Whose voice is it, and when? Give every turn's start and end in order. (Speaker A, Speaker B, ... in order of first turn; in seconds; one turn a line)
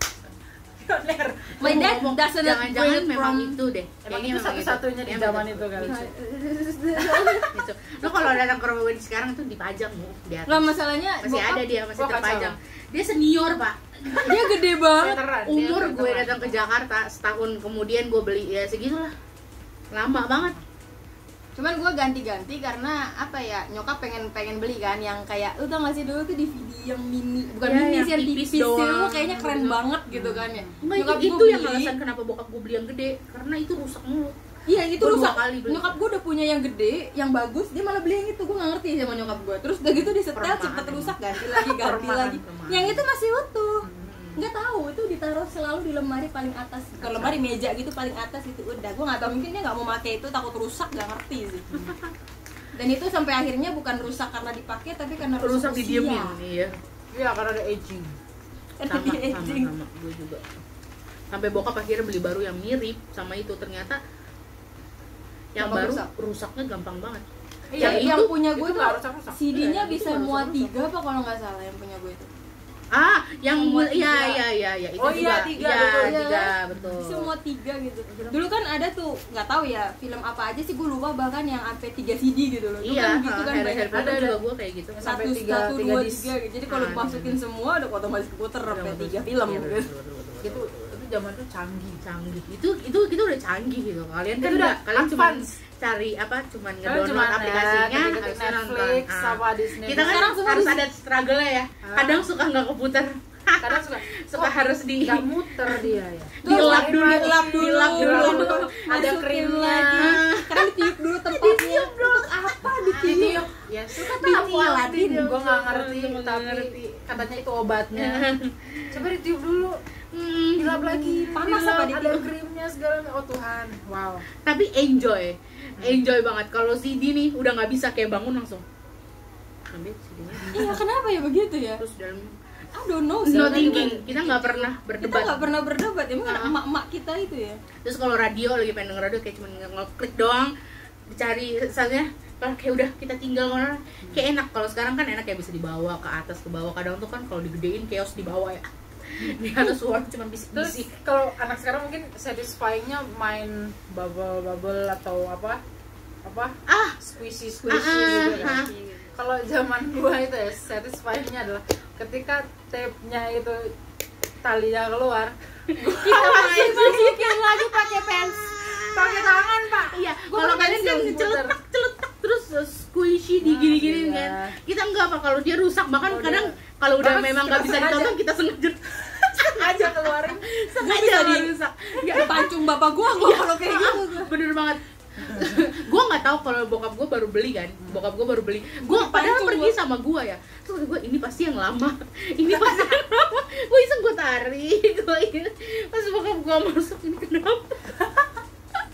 Speaker A: 0.8-1.9
Speaker B: 1.6-3.6
Speaker C: 1.6-6.1
Speaker A: 4.0-6.0
Speaker B: 5.8-7.5
Speaker A: 7.0-7.5
Speaker C: 7.5-19.1
Speaker B: 10.5-11.6
Speaker A: 11.9-12.5
Speaker B: 14.2-15.2
Speaker A: 14.9-16.6
Speaker C: 19.9-20.6
Speaker B: 21.6-31.9
Speaker C: 27.6-29.8
Speaker A: 30.1-30.8
Speaker C: 30.8-34.3
Speaker B: 34.7-51.9
Speaker C: 34.9-36.0
Speaker C: 39.1-39.4
Speaker C: 40.0-43.0
Speaker A: 43.8-44.1
Speaker C: 44.0-44.5
Speaker C: 47.0-47.3
Speaker C: 51.7-52.1
Speaker B: 52.7-56.4
Speaker C: 55.3-56.8
Speaker A: 57.1-58.1
Speaker B: 58.8-59.7
Speaker C: 58.9-60.4
Speaker C: 61.3-64.0
Speaker C: 65.5-67.2
Speaker B: 65.6-66.1
Speaker A: 67.7-69.4
Speaker C: 67.8-68.3
Speaker B: 67.8-72.3
Speaker C: 69.5-70.7
Speaker C: 72.9-77.3
Speaker B: 73.5-74.4
Speaker A: 75.0-76.2
Speaker B: 76.0-84.3
Speaker A: 76.7-77.0
Speaker C: 78.1-78.4
Speaker C: 82.8-85.0
Speaker A: 83.9-84.4
Speaker A: 84.9-86.3
Speaker B: 85.0-89.9
Speaker C: 86.7-87.3
Speaker C: 88.7-90.9
Speaker A: 90.4-92.0
Speaker C: 92.0-105.9
Speaker A: 94.4-95.6
Speaker A: 96.8-100.7
Speaker B: 99.9-100.8
Speaker A: 101.8-102.3
Speaker A: 103.6-110.2
Speaker C: 106.4-109.1
Speaker B: 106.4-113.4
Speaker C: 109.9-113.4
Speaker A: 113.0-118.3
Speaker B: 113.9-115.3
Speaker C: 114.2-117.2
Speaker C: 117.9-119.0
Speaker A: 118.9-119.8
Speaker C: 120.1-121.3
Speaker A: 120.6-124.2
Speaker B: 121.3-122.3
Speaker C: 124.3-128.6
Speaker C: 129.7-130.8
Speaker A: 130.3-130.8
Speaker B: 130.5-131.8
Speaker C: 131.8-132.4
Speaker B: 132.7-137.6
Speaker A: 133.2-134.0
Speaker C: 133.3-135.5
Speaker C: 136.2-136.6
Speaker C: 137.8-140.5
Speaker C: 141.1-150.9
Speaker A: 150.5-155.6
Speaker A: 156.2-163.7
Speaker C: 156.7-157.0
Speaker B: 157.7-159.2
Speaker C: 157.7-158.7
Speaker A: 164.4-165.3
Speaker C: 165.7-197.9
Speaker B: 165.8-168.3
Speaker A: 168.8-171.6
Speaker A: 173.4-174.6
Speaker A: 176.1-178.1
Speaker A: 179.2-180.5
Speaker B: 180.6-184.3
Speaker A: 185.2-185.5
Speaker B: 188.8-189.8